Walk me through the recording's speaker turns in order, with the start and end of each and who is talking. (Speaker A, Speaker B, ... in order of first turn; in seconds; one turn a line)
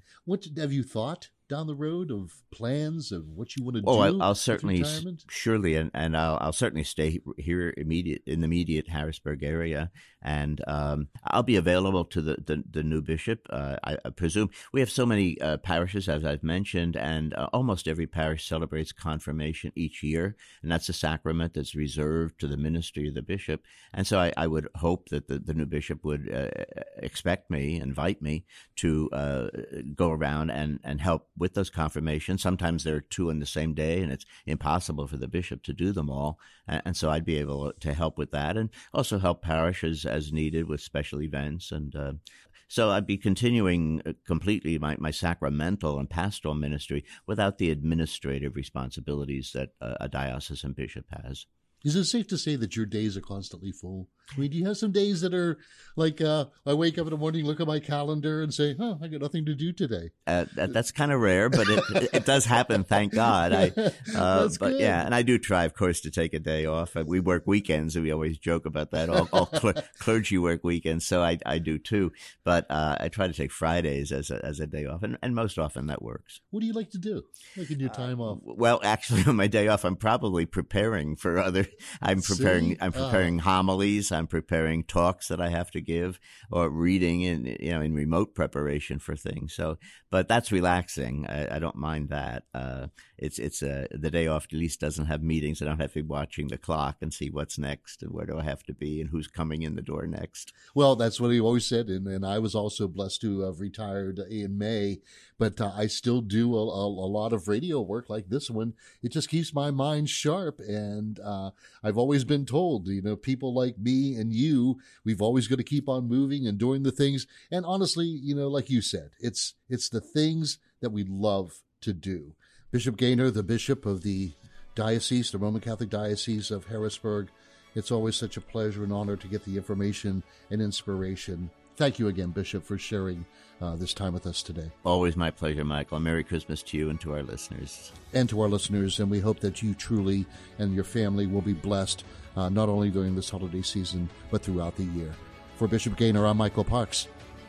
Speaker A: 0.2-5.2
Speaker B: 3.8-42.2
Speaker B: 42.7-51.5
Speaker A: 51.8-60.1
Speaker B: 60.3-76.4
Speaker A: 61.7-62.2
Speaker A: 63.1-65.0
Speaker A: 76.5-78.4
Speaker B: 77.9-100.5
Speaker A: 82.2-83.3
Speaker A: 100.7-134.7
Speaker B: 134.8-137.9
Speaker A: 138.1-147.1